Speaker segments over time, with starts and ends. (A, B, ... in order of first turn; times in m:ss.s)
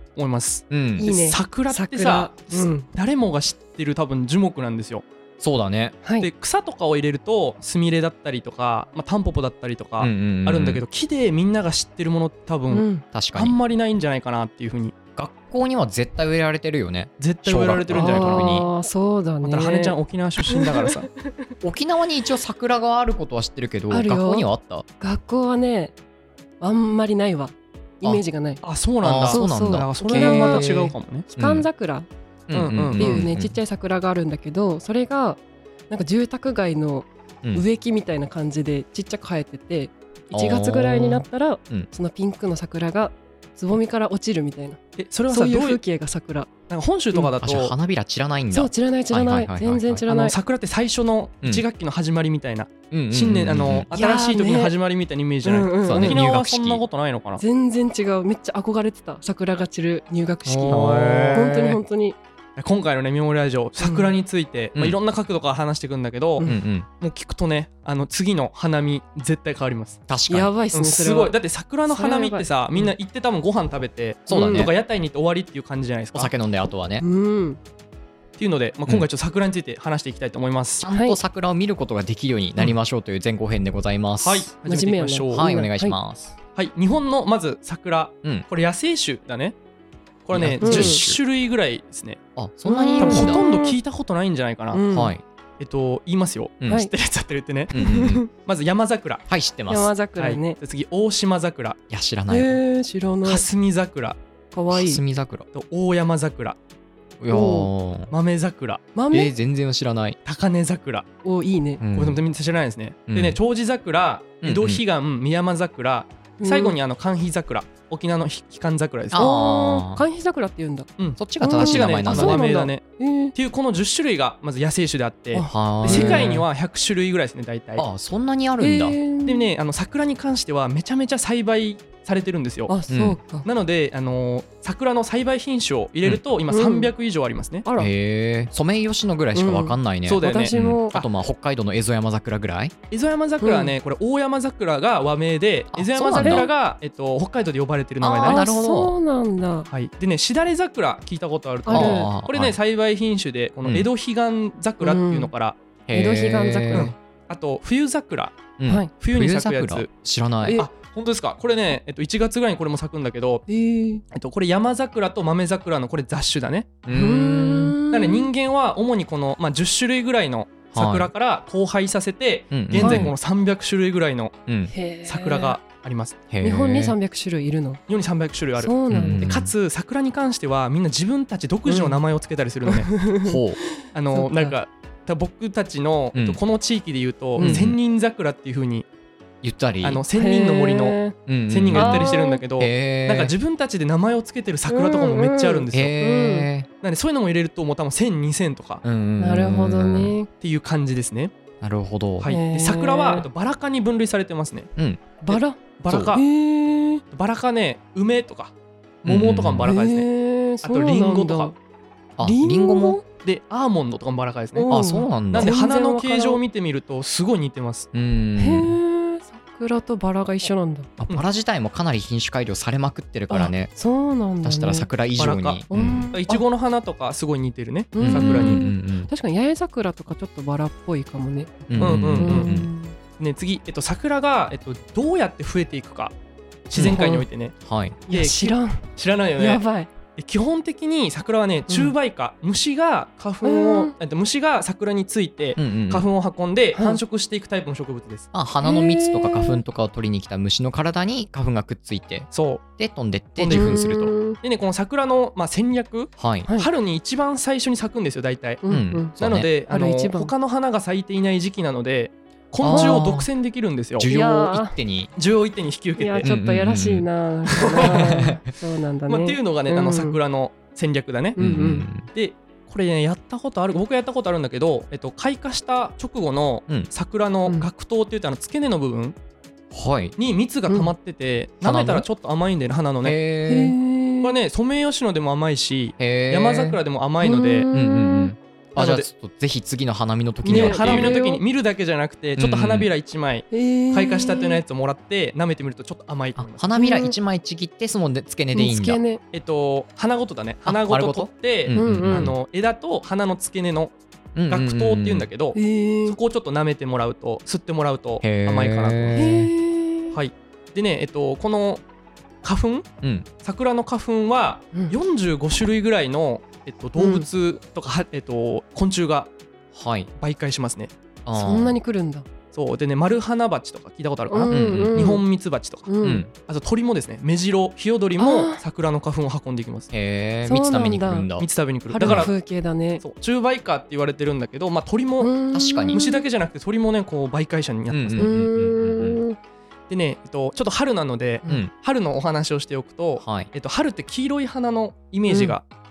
0:00.2-0:05.0 A
0:00.7-0:01.1 B
0:01.0-0:02.9 C
0:05.4-0:06.0 B
0:06.0-0:06.3 C
0:06.2-0:15.0 A
0:10.0-0:10.8 B
0:12.7-0:13.0 C
0:13.1-0:13.6 B
0:15.2-0:18.7 B
0:17.2-0:18.7 A
0:17.9-0:20.0 C
0:19.4-0:21.1 A
0:20.5-0:21.5 C
0:21.6-0:24.9 B
0:23.9-0:24.5 C
0:25.0-0:25.9 C
0:26.6-0:28.6 C
0:28.6-0:31.3 A
0:29.0-0:31.7 B
0:29.3-0:30.7 C
0:31.3-0:32.1 C
0:32.5-0:33.6 B
0:32.5-0:33.2 A
0:33.0-0:46.5 C
0:40.3-0:41.9 B
0:45.0-0:45.8 A
0:46.7-0:47.7 A
0:47.4-0:50.0 B
0:48.5-0:50.4 C
0:50.1-0:57.4 A
0:52.9-0:53.9 B
0:53.9-0:54.7 C
0:55.4-0:56.2 C
0:55.8-0:56.8 B
0:57.4-1:02.2 C
1:00.4-1:01.8 B
1:00.7-1:01.5 A
1:02.6-1:06.5 A
1:03.8-1:04.1 C
1:06.4-1:06.9 B
1:07.0-1:10.0 A
1:10.1-1:10.5 B
1:10.3-1:11.4 C
1:10.7-1:16.3 A
1:11.9-1:12.9 C
1:14.3-1:14.7 B
1:14.3-1:14.7 C
1:16.1-1:17.0 B
1:17.0-1:17.6 C
1:18.4-1:20.9 A
1:20.8-1:24.5 B
1:20.9-1:21.2 C
1:24.2-1:25.4 A
1:24.7-1:26.0 C
1:25.3-1:26.4 B
1:26.6-1:29.6 A
1:30.2-1:32.2 A
1:30.3-1:31.2 B
1:30.6-1:31.0 C
1:32.4-1:33.4 B
1:32.7-1:33.8 C
1:33.0-1:34.8 A
1:34.7-1:35.2 C
1:34.9-1:35.2 B
1:35.6-1:37.8 A
1:37.7-1:38.3 C
1:37.7-1:38.2 B
1:38.4-1:39.2 A
1:39.3-1:39.9 B
1:39.7-1:40.6 C
1:40.2-1:41.8 A
1:41.9-1:42.6 B
1:42.3-1:43.5 C
1:43.2-1:44.2 A
1:44.5-1:45.0 C
1:44.7-1:45.5 B
1:45.5-1:46.6 A
1:47.2-1:48.1 B
1:47.3-1:47.7 C
1:48.1-1:48.9 A
1:49.0-1:49.3 C
1:49.1-1:50.2 B
1:50.2-1:51.1 A
1:51.2-1:51.8 C
1:51.8-1:52.2 B
1:51.9-1:59.3 A
1:53.1-1:53.4 B
1:54.4-1:54.8 B
1:56.4-1:56.8 C
1:59.1-2:00.1 B
1:59.1-2:00.9 C
2:01.0-2:02.8 A
2:01.2-2:02.5 B
2:01.4-2:03.4 C
2:03.4-2:07.9 A
2:05.3-2:06.4 C
2:05.4-2:06.4 B
2:07.8-2:09.0 B
2:08.6-2:09.5 C
2:09.2-2:12.8 A
2:12.7-2:13.5 C
2:12.9-2:13.2 B
2:13.4-2:17.7 A
2:16.5-2:16.9 C
2:17.6-2:17.9 C
2:17.8-2:22.7 B
2:19.4-2:21.0 C
2:20.1-2:21.0 A
2:22.9-2:28.4 A
2:23.4-2:23.7 C
2:25.7-2:26.5 B
2:26.0-2:26.5 C
2:28.0-2:29.0 B
2:28.2-2:29.7 C
2:29.7-2:35.6 A
2:31.7-2:32.1 C
2:31.7-2:32.6 B
2:33.6-2:33.9 B
2:34.8-2:35.3 C
2:35.9-2:36.9 B
2:35.9-2:36.9 C
2:36.7-2:38.4 A
2:38.6-2:40.6 B
2:39.0-2:39.9 A
2:40.4-2:40.7 C
2:40.6-2:43.4 A
2:43.5-2:44.0 C
2:44.1-2:46.7 A
2:46.9-2:47.8 B
2:46.9-2:48.3 C
2:47.9-2:54.4 A
2:50.7-2:51.1 B
2:52.5-2:53.2 B
2:52.8-2:53.1 C
2:54.5-2:54.7 B
2:54.7-2:55.6 C
2:55.0-2:56.2 A
2:56.3-2:57.0 B
2:56.4-2:57.8 C
2:57.9-3:03.0 A
2:58.6-2:59.4 C
2:58.9-2:59.5 B
3:01.7-3:02.0 C
3:02.7-3:04.6 C
3:03.2-3:03.6 B
3:03.9-3:08.9 A
3:06.1-3:06.4 B
3:07.4-3:07.7 C
3:07.4-3:07.8 B
3:09.4-3:10.0 B
3:09.8-3:11.0 A
3:10.1-3:11.2 C
3:11.3-3:13.3 B
3:11.5-3:16.0 A
3:11.8-3:12.4 C
3:14.7-3:16.5 C
3:15.7-3:16.7 B
3:16.8-3:18.8 A
3:18.8-3:20.2 B
3:19.2-3:20.3 C
3:20.4-3:21.3 A
3:21.6-3:22.3 B
3:22.2-3:24.7 A
3:22.3-3:23.3 C
3:24.8-3:25.2 B
3:25.2-3:27.0 C
3:25.3-3:26.2 A
3:25.9-3:26.2 B
3:27.1-3:28.5 A
3:29.0-3:30.1 A
3:29.0-3:29.7 B
3:29.6-3:31.6 C
3:30.6-3:31.5 A
3:32.2-3:33.0 B
3:32.2-3:33.0 C
3:33.2-3:34.7 A
3:34.6-3:36.4 C
3:34.7-3:35.5 B
3:35.3-3:37.9 A
3:37.9-3:38.8 B
3:38.4-3:40.9 C
3:41.0-3:43.7 B
3:43.3-3:44.9 C
3:44.4-3:46.1 B
3:45.2-3:48.6 A
3:45.7-3:46.4 C
3:47.9-3:53.0 C
3:48.0-3:49.1 B
3:51.7-3:52.7 B
3:51.8-3:52.6 A
3:53.2-3:56.2 A
3:56.7-3:57.6 A
3:56.8-3:57.0 B
3:56.8-3:57.3 C
3:57.6-3:58.0 B
3:58.1-3:59.9 C
3:58.1-3:59.6 A
4:00.2-4:08.3 A
4:01.7-4:01.9 C
4:03.4-4:03.9 C
4:05.6-4:06.1 B
4:06.8-4:07.0 C
4:08.3-4:14.1 B
4:08.6-4:09.6 C
4:12.3-4:12.6 A
4:13.4-4:13.8 A
4:13.5-4:14.4 C
4:14.4-4:18.6 A
4:16.2-4:16.5 B
4:18.6-4:19.1 C
4:18.7-4:19.5 B
4:19.2-4:24.1 A
4:19.7-4:20.3 C
4:22.6-4:23.3 B
4:22.7-4:23.1 C
4:24.0-4:25.1 B
4:24.1-4:24.8 C
4:25.2-4:26.3 A
4:26.0-4:30.2 C
4:26.2-4:27.1 B
4:27.5-4:28.1 A
4:27.7-4:28.4 B
4:29.1-4:31.4 A
4:31.4-4:31.9 C
4:31.4-4:32.1 B
4:32.1-4:39.2 A
4:39.7-4:40.2 B
4:40.2-4:43.2 A
4:41.6-4:42.1 B
4:43.0-4:43.8 B
4:43.5-4:44.4 C
4:44.2-4:47.7 A
4:46.0-4:46.8 B
4:47.2-4:48.4 C
4:47.7-4:51.2 B
4:48.8-4:49.1 A
4:50.4-4:51.4 C
4:50.5-4:56.7 A
4:52.4-4:52.9 B
4:53.5-4:54.6 C
4:56.4-4:59.0 B
4:56.8-4:57.2 C
4:58.5-4:59.2 C
4:59.3-5:03.9 A
5:00.7-5:02.4 B
5:01.7-5:02.3 C
5:04.4-5:05.3 B
5:04.5-5:09.3 A
5:05.6-5:06.2 C
5:08.2-5:09.5 B
5:09.1-5:10.2 C
5:10.1-5:11.8 A
5:12.4-5:12.9 A
5:13.0-5:13.3 B
5:13.4-5:19.3 A
5:17.0-5:17.3 C
5:19.7-5:20.1 B
5:20.2-5:20.9 A
5:21.3-5:21.8 B
5:21.3-5:22.3 C
5:22.5-5:29.9 A
5:24.3-5:25.2 C
5:24.5-5:25.1 B
5:25.9-5:26.3 C
5:26.0-5:26.3 B
5:28.2-5:28.6 C
5:29.9-5:31.5 B
5:30.4-5:31.3 C
5:31.4-5:32.3 A
5:31.9-5:33.0 C
5:32.0-5:32.3 B
5:33.0-5:35.4 A
5:35.2-5:36.3 C
5:35.5-5:36.0 B
5:35.9-5:38.3 A
5:37.9-5:39.2 B
5:38.2-5:39.4 C
5:39.9-5:45.6 A
5:43.2-5:43.5 B
5:45.3-5:45.6 C